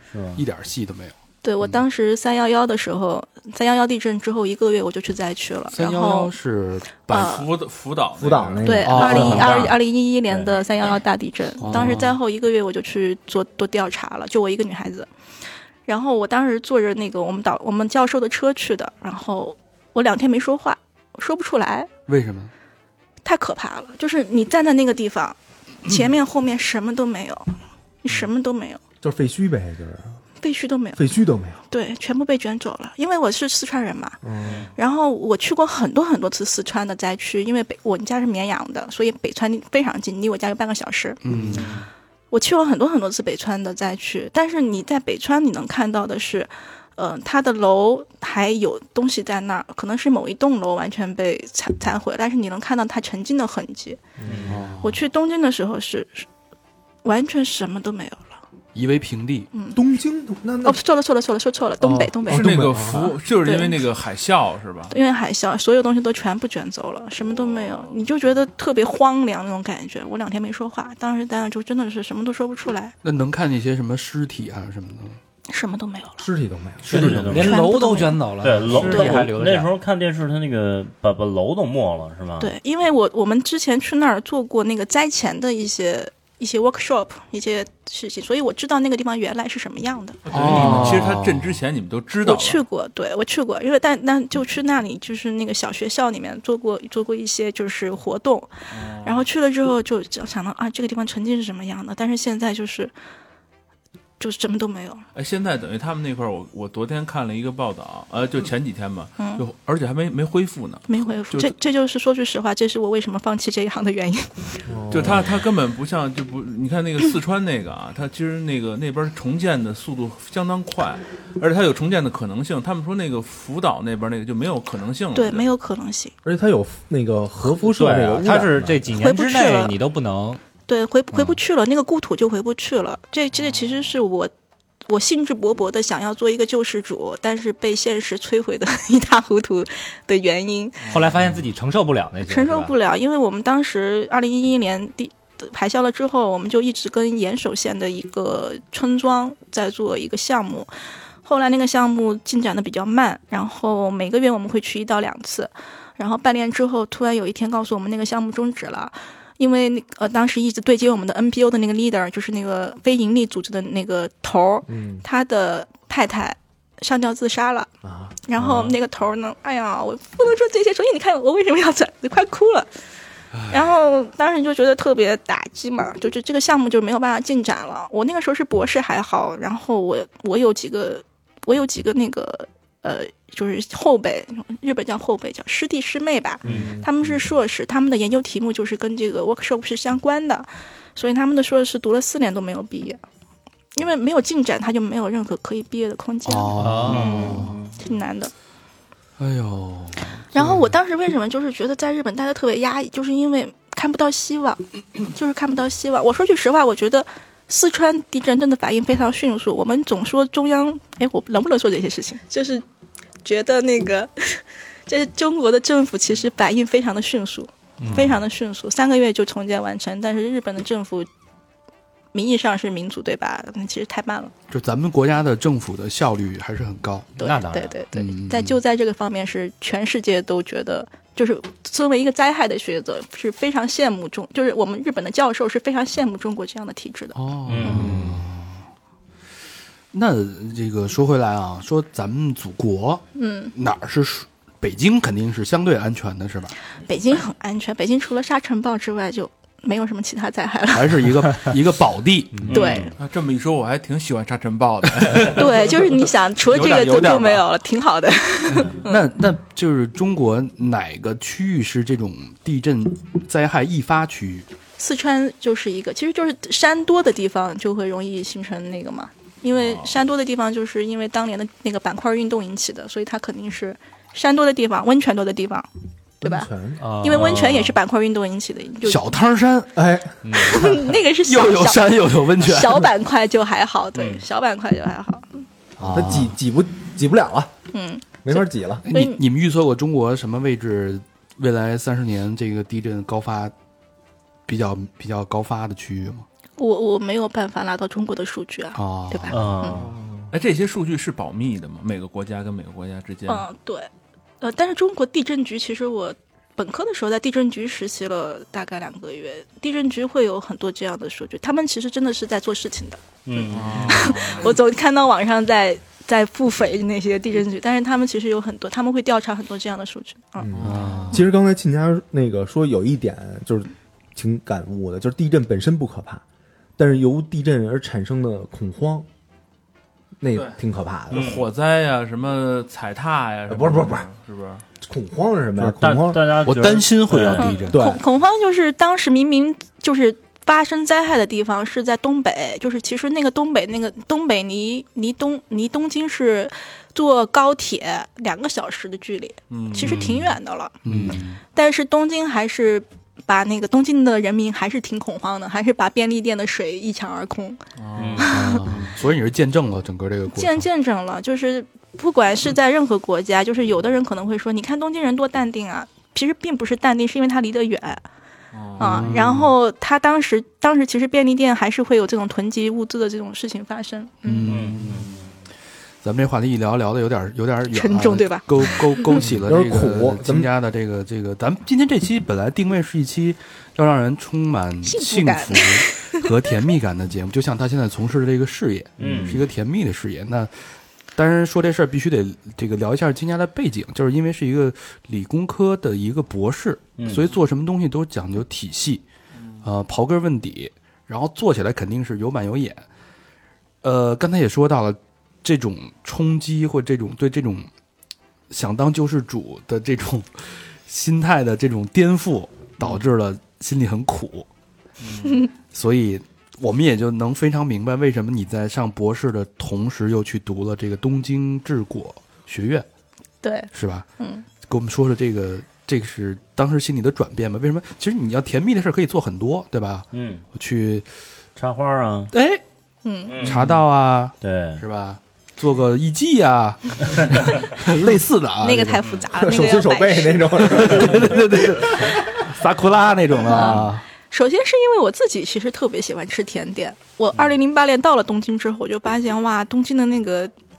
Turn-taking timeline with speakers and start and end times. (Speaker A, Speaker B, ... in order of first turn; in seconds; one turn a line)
Speaker A: 0.1-0.5
Speaker B: 0.3-1.1
Speaker C: 1.4-6.3
Speaker B: 5.7-7.4
Speaker C: 7.1-7.5
Speaker D: 7.1-8.8
Speaker E: 8.2-9.3
Speaker C: 8.6-15.1
Speaker B: 8.8-9.6
Speaker A: 9.0-9.8
Speaker A: 10.3-10.5
Speaker B: 11.6-12.1
Speaker A: 11.7-12.0
Speaker C: 15.8-21.9
Speaker B: 22.1-22.5
Speaker C: 23.2-28.8
Speaker E: 29.0-30.2
Speaker C: 30.4-31.1
Speaker E: 30.9-31.6
Speaker C: 31.7-34.2
Speaker E: 34.2-34.7
Speaker A: 34.4-34.7
Speaker C: 34.7-41.2
Speaker B: 41.2-41.8
Speaker E: 41.3-41.6
Speaker A: 41.5-41.9
Speaker C: 42.3-54.0
Speaker E: 54.2-54.6
Speaker A: 54.2-54.6
Speaker B: 54.5-55.0
Speaker C: 54.8-56.3
Speaker C: 57.0-58.4
Speaker B: 58.7-59.5
Speaker E: 59.7-60.8
Speaker C: 60.6-63.8
Speaker E: 61.8-63.1
Speaker D: 62.3-65.0
Speaker C: 64.9-72.9
Speaker B: 73.0-75.2
Speaker C: 75.5-76.3
Speaker E: 76.2-77.4
Speaker A: 76.9-77.7
Speaker F: 76.9-79.7
Speaker C: 77.3-78.2
Speaker A: 78.4-82.5
Speaker C: 78.8-79.2
Speaker C: 82.4-90.9
Speaker D: 90.2-92.6
Speaker B: 90.3-91.5
Speaker C: 92.2-98.5
Speaker D: 98.7-99.2
Speaker C: 99.0-102.9
Speaker C: 104.2-105.0
Speaker D: 105.1-111.5
Speaker C: 109.2-109.4
Speaker C: 110.9-114.6
Speaker E: 114.7-115.3
Speaker D: 114.9-125.5
Speaker C: 125.1-126.1
Speaker E: 126.2-128.8
Speaker F: 127.7-130.4
Speaker A: 127.8-128.2
Speaker C: 128.9-129.8
Speaker C: 130.7-134.3
Speaker C: 134.9-141.0
Speaker D: 140.9-141.2
Speaker F: 140.9-142.7
Speaker C: 142.2-150.7
Speaker C: 151.2-167.7
Speaker E: 164.7-165.0
Speaker E: 167.8-168.2
Speaker C: 168.2-172.7
Speaker C: 173.5-193.0
Speaker E: 186.4-187.2
Speaker C: 193.8-198.3
Speaker B: 196.2-197.6
Speaker F: 196.6-197.2
Speaker A: 196.7-197.7
Speaker B: 199.2-200.7
Speaker C: 200.3-212.6
Speaker C: 213.2-221.1
Speaker F: 217.8-218.2
Speaker B: 217.9-218.1
Speaker C: 222.1-224.3
Speaker B: 224.5-227.2
Speaker C: 227.2-237.8
Speaker F: 227.2-227.8
Speaker B: 227.9-228.6
Speaker B: 237.1-238.6
Speaker A: 237.4-238.1
Speaker F: 237.7-238.2
Speaker B: 239.9-246.5
Speaker C: 243.1-243.5
Speaker C: 246.9-251.1
Speaker B: 250.7-252.7
Speaker A: 252.5-252.9
Speaker C: 252.5-252.9
Speaker D: 253.0-257.4
Speaker C: 255.3-259.0
Speaker B: 258.7-264.5
Speaker C: 264.8-275.7
Speaker D: 269.6-269.9
Speaker C: 276.2-276.5
Speaker E: 276.2-276.8
Speaker F: 276.8-277.7
Speaker C: 277.0-279.0
Speaker B: 278.8-279.8
Speaker E: 279.7-280.1
Speaker F: 280.2-280.7
Speaker C: 280.4-285.4
Speaker B: 280.4-282.9
Speaker A: 283.9-284.2
Speaker E: 285.8-287.5
Speaker B: 285.8-286.4
Speaker C: 287.7-289.2
Speaker E: 288.2-288.9
Speaker B: 288.8-293.5
Speaker B: 294.5-296.2
Speaker C: 296.6-299.8
Speaker B: 298.7-299.4
Speaker A: 299.3-299.9
Speaker E: 299.8-300.2
Speaker D: 300.3-303.4
Speaker C: 303.3-303.9
Speaker C: 304.4-320.6
Speaker A: 313.2-314.2
Speaker D: 313.5-314.5
Speaker E: 320.4-326.2
Speaker D: 320.5-321.0
Speaker B: 320.6-321.3
Speaker E: 326.8-329.1
Speaker E: 330.2-331.3
Speaker D: 331.1-334.6
Speaker A: 331.1-331.5
Speaker E: 333.5-334.0
Speaker E: 334.8-336.4
Speaker A: 335.8-337.6
Speaker B: 336.4-337.8
Speaker C: 337.4-350.8
Speaker E: 337.7-338.0
Speaker D: 349.5-350.0
Speaker B: 349.8-350.3
Speaker B: 350.8-351.4
Speaker C: 351.5-357.6
Speaker D: 357.8-358.3
Speaker A: 357.9-358.9
Speaker C: 358.2-358.6
Speaker B: 358.3-360.6
Speaker C: 360.3-368.0
Speaker D: 368.5-369.1
Speaker B: 368.8-369.5
Speaker C: 368.8-374.6
Speaker B: 374.2-375.1
Speaker A: 374.4-375.2
Speaker B: 376.0-390.5
Speaker C: 377.7-379.2
Speaker E: 379.4-380.5
Speaker C: 384.8-386.2
Speaker A: 389.0-389.4
Speaker B: 391.1-399.0
Speaker A: 397.0-397.3
Speaker B: 399.6-402.8
Speaker B: 403.8-407.7
Speaker B: 408.5-414.5
Speaker B: 415.7-422.9
Speaker C: 423.4-424.4
Speaker B: 423.7-424.1
Speaker B: 424.6-431.1
Speaker A: 430.1-430.4
Speaker A: 431.6-432.3
Speaker B: 432.3-432.6
Speaker C: 433.0-433.5
Speaker A: 433.3-433.8
Speaker B: 433.4-439.1
Speaker A: 434.4-434.8
Speaker C: 438.6-440.9
Speaker E: 439.4-441.6
Speaker B: 440.7-444.0
Speaker C: 443.4-450.5